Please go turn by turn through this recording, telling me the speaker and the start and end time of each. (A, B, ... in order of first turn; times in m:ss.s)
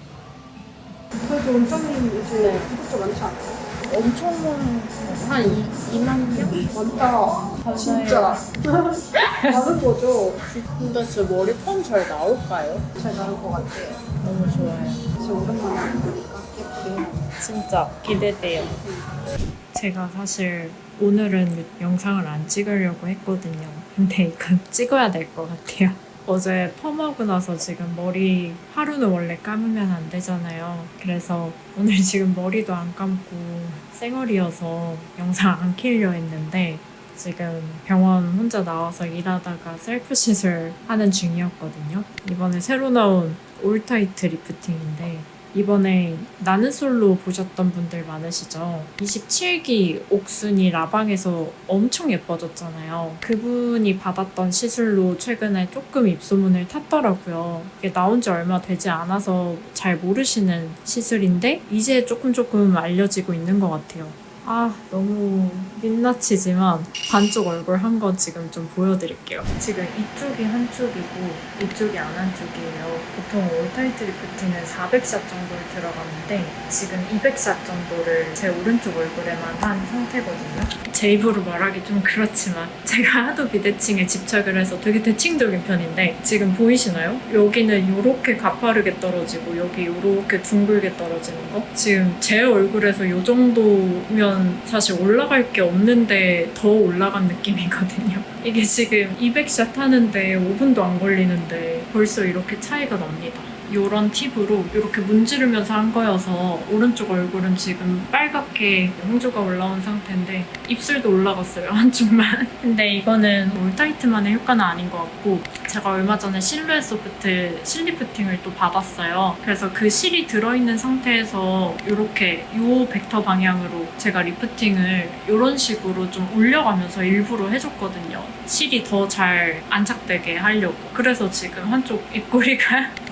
0:01.2-0:04.4 A
0:04.1-0:06.3 B
0:04.9-0:10.4 A
0:10.7-0:12.9 B
0:12.9-0:14.0 A
0:14.2-0:14.8 C
0:15.0-0:17.2 A
0:17.4-0:18.7 C
0:18.7-0:19.0 A
0:19.7-2:12.9 C